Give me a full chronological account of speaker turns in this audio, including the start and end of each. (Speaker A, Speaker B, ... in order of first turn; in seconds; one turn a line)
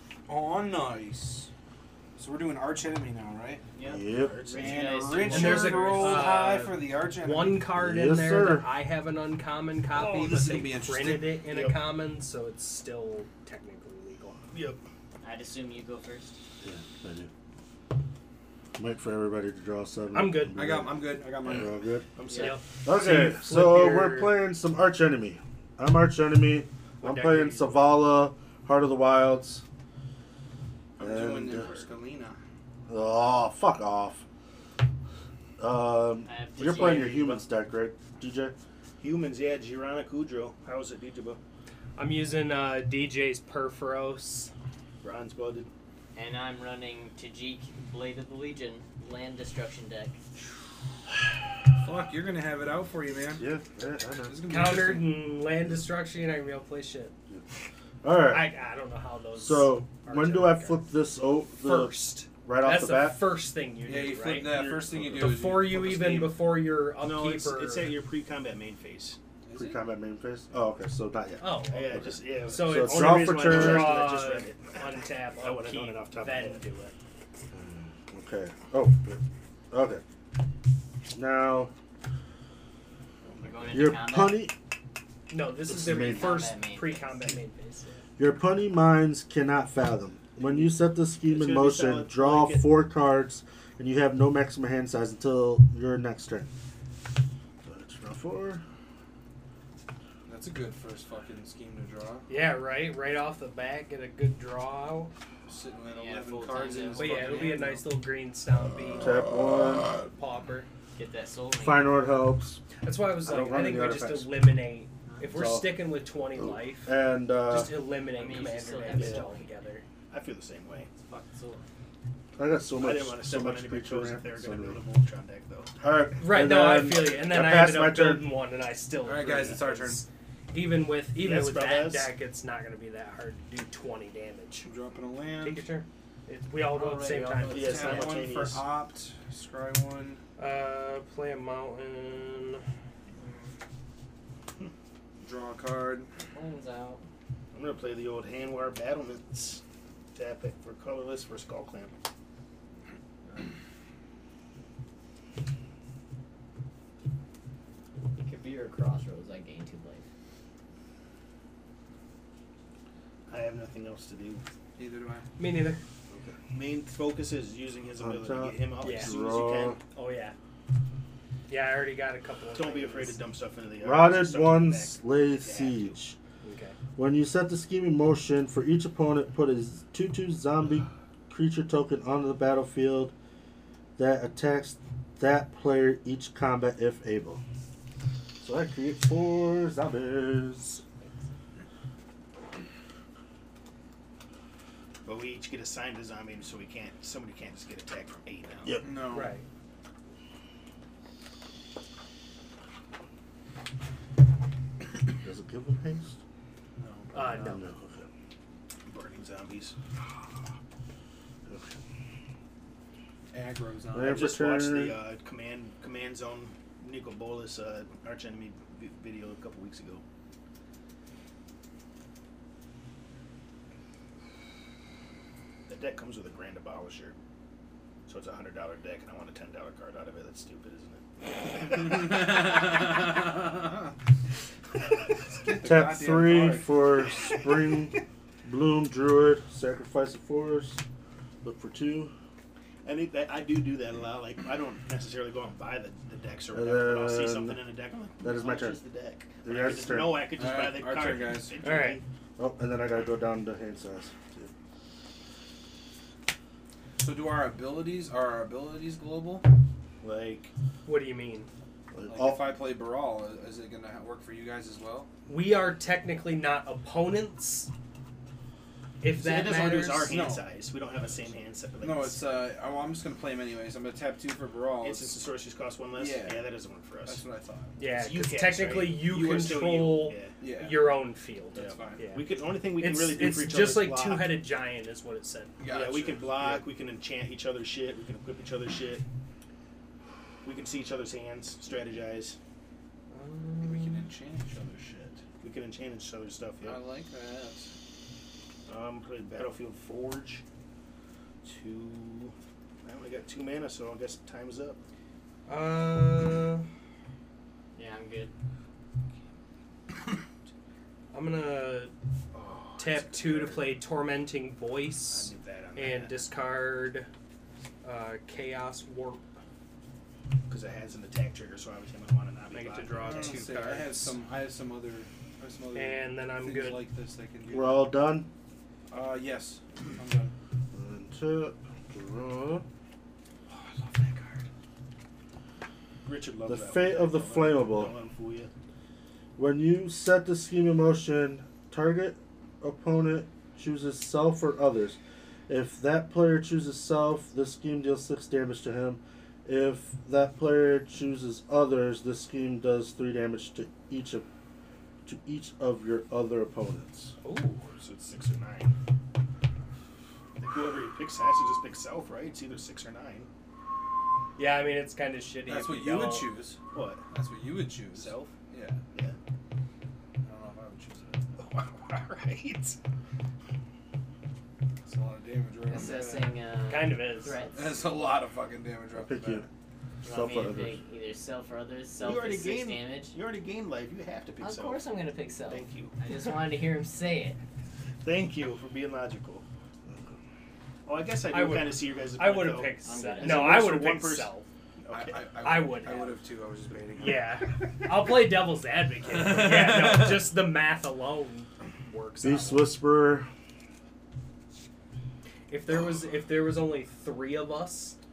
Speaker A: 0.3-1.5
Speaker A: 2.2-3.6
Speaker B: 3.8-6.3
Speaker C: 3.8-4.4
Speaker D: 4.2-4.9
Speaker A: 4.5-7.7
Speaker E: 5.3-14.4
Speaker C: 7.7-8.7
Speaker A: 9.9-11.3
Speaker D: 10.1-10.7
Speaker D: 11.5-11.8
Speaker D: 14.5-14.8
Speaker B: 15.2-16.4
Speaker C: 16.6-17.3
Speaker C: 18.8-22.1
Speaker E: 20.1-20.7
Speaker A: 20.5-21.9
Speaker D: 22.1-22.6
Speaker B: 22.2-22.6
Speaker E: 22.3-24.4
Speaker C: 22.8-29.6
Speaker E: 27.0-27.9
Speaker A: 31.0-32.4
Speaker C: 31.0-31.7
Speaker D: 31.4-31.9
Speaker C: 32.9-34.2
Speaker C: 35.6-38.5
Speaker B: 36.2-37.4
Speaker D: 39.0-41.4
Speaker E: 42.0-44.5
Speaker D: 45.0-45.7
Speaker B: 46.1-50.2
Speaker A: 51.8-53.4
Speaker C: 53.4-54.4
Speaker A: 54.2-55.2
Speaker E: 54.5-57.1
Speaker C: 58.0-58.5
Speaker E: 58.3-60.9
Speaker C: 59.4-63.4
Speaker E: 61.6-64.6
Speaker A: 63.8-66.6
Speaker D: 64.5-65.1
Speaker C: 64.9-65.3
Speaker E: 65.1-68.0
Speaker D: 67.0-69.2
Speaker A: 69.4-69.8
Speaker C: 69.5-74.0
Speaker E: 71.4-76.9
Speaker D: 71.7-76.6
Speaker C: 77.5-80.0
Speaker C: 81.1-81.7
Speaker B: 83.4-84.5
Speaker C: 83.7-84.5
Speaker E: 85.3-88.0
Speaker C: 85.7-86.4
Speaker B: 85.9-87.2
Speaker C: 88.2-96.5
Speaker D: 90.4-90.7
Speaker D: 91.2-92.7
Speaker C: 97.6-98.6
Speaker A: 100.3-102.3
Speaker E: 102.3-105.1
Speaker A: 105.5-107.8
Speaker B: 105.8-107.5
Speaker E: 106.9-109.2
Speaker C: 109.0-109.9
Speaker E: 110.1-110.7
Speaker B: 111.0-111.9
Speaker C: 111.6-112.6
Speaker E: 112.8-116.9
Speaker C: 113.2-114.3
Speaker C: 115.3-117.8
Speaker E: 117.5-119.8
Speaker B: 118.1-119.5
Speaker D: 120.1-120.9
Speaker B: 121.1-121.7
Speaker C: 122.4-124.8
Speaker D: 122.8-125.7
Speaker C: 125.8-128.3
Speaker E: 126.2-134.7
Speaker A: 129.0-130.0
Speaker D: 131.2-132.1
Speaker A: 134.6-135.7
Speaker E: 135.4-138.2
Speaker A: 136.7-140.2
Speaker B: 136.9-137.8
Speaker D: 137.5-138.7
Speaker E: 140.4-142.6
Speaker A: 145.2-146.1
Speaker B: 146.3-147.0
Speaker D: 147.5-149.6
Speaker D: 150.1-151.9
Speaker B: 158.1-160.0
Speaker D: 163.3-164.4
Speaker A: 164.8-165.2
Speaker E: 165.4-165.8
Speaker C: 166.1-166.4
Speaker D: 166.5-169.8
Speaker C: 168.0-169.8
Speaker E: 168.8-169.1
Speaker E: 169.9-170.3
Speaker E: 171.5-173.2
Speaker D: 172.5-176.0
Speaker C: 173.8-176.2
Speaker E: 176.4-176.8
Speaker C: 176.9-183.1
Speaker C: 184.0-187.4
Speaker C: 188.4-190.8
Speaker D: 195.0-198.8
Speaker C: 198.6-199.0
Speaker A: 198.8-199.4
Speaker E: 199.1-199.4
Speaker C: 205.2-206.2
Speaker A: 206.8-207.1
Speaker E: 207.1-207.6
Speaker C: 207.1-208.1
Speaker D: 208.8-209.7
Speaker C: 211.5-211.8
Speaker A: 213.3-214.4
Speaker C: 213.9-215.0
Speaker D: 214.0-220.0
Speaker D: 225.7-227.2
Speaker D: 228.1-231.0
Speaker A: 231.6-233.9
Speaker A: 235.2-236.8
Speaker C: 235.6-240.8
Speaker C: 241.4-242.1
Speaker D: 242.8-252.0
Speaker C: 246.5-247.6
Speaker C: 248.2-248.8
Speaker C: 249.4-250.3
Speaker A: 250.3-251.6
Speaker E: 251.6-252.0
Speaker C: 252.4-254.5
Speaker A: 257.0-259.5
Speaker D: 260.0-260.5
Speaker E: 260.9-261.5
Speaker C: 261.9-262.5
Speaker A: 262.1-265.1
Speaker E: 265.3-267.7
Speaker E: 269.0-270.3
Speaker D: 269.1-272.4
Speaker A: 270.1-270.5
Speaker A: 271.8-275.2
Speaker D: 274.8-277.2
Speaker A: 275.9-276.5
Speaker A: 277.1-277.8
Speaker E: 277.8-282.2
Speaker D: 277.8-280.4
Speaker A: 280.4-280.9
Speaker A: 281.5-282.1
Speaker D: 281.6-284.4
Speaker E: 282.7-285.8
Speaker A: 285.6-286.2
Speaker D: 285.6-289.0
Speaker E: 286.3-286.6
Speaker D: 290.4-292.4
Speaker E: 293.1-294.1
Speaker A: 293.6-294.7
Speaker D: 294.5-296.8
Speaker A: 296.6-297.7
Speaker D: 298.7-300.4
Speaker D: 301.4-304.8
Speaker E: 305.4-306.6
Speaker B: 307.7-308.3
Speaker E: 311.1-311.9
Speaker D: 312.3-313.7
Speaker E: 312.8-317.1
Speaker D: 315.1-316.2
Speaker E: 317.8-319.2
Speaker D: 320.5-323.6
Speaker E: 322.5-324.2
Speaker A: 323.0-327.9
Speaker E: 325.7-326.9
Speaker C: 327.5-328.3
Speaker A: 328.9-330.3
Speaker C: 330.7-332.6
Speaker E: 333.9-334.2
Speaker D: 336.0-338.5
Speaker C: 336.5-337.9
Speaker C: 339.4-345.0
Speaker C: 345.5-354.2
Speaker C: 355.1-357.1
Speaker E: 357.2-357.7
Speaker D: 357.8-358.7
Speaker D: 360.4-363.3
Speaker E: 364.4-366.4
Speaker A: 365.4-366.6
Speaker D: 366.7-367.0
Speaker A: 367.1-368.8
Speaker D: 367.9-368.3
Speaker A: 370.2-371.2
Speaker D: 371.4-372.8
Speaker A: 374.8-376.3
Speaker B: 375.6-377.6
Speaker E: 376.7-377.4
Speaker A: 377.5-379.5
Speaker C: 378.9-379.4
Speaker B: 380.0-383.1
Speaker C: 380.0-380.8
Speaker D: 382.0-384.8
Speaker B: 384.4-387.4
Speaker D: 385.5-385.9
Speaker D: 388.0-389.4
Speaker D: 390.9-395.3
Speaker E: 391.3-394.5
Speaker B: 392.8-393.6
Speaker A: 394.9-397.3
Speaker E: 395.4-396.2
Speaker E: 397.0-402.8
Speaker A: 399.1-400.3
Speaker C: 402.2-403.3
Speaker E: 405.5-407.9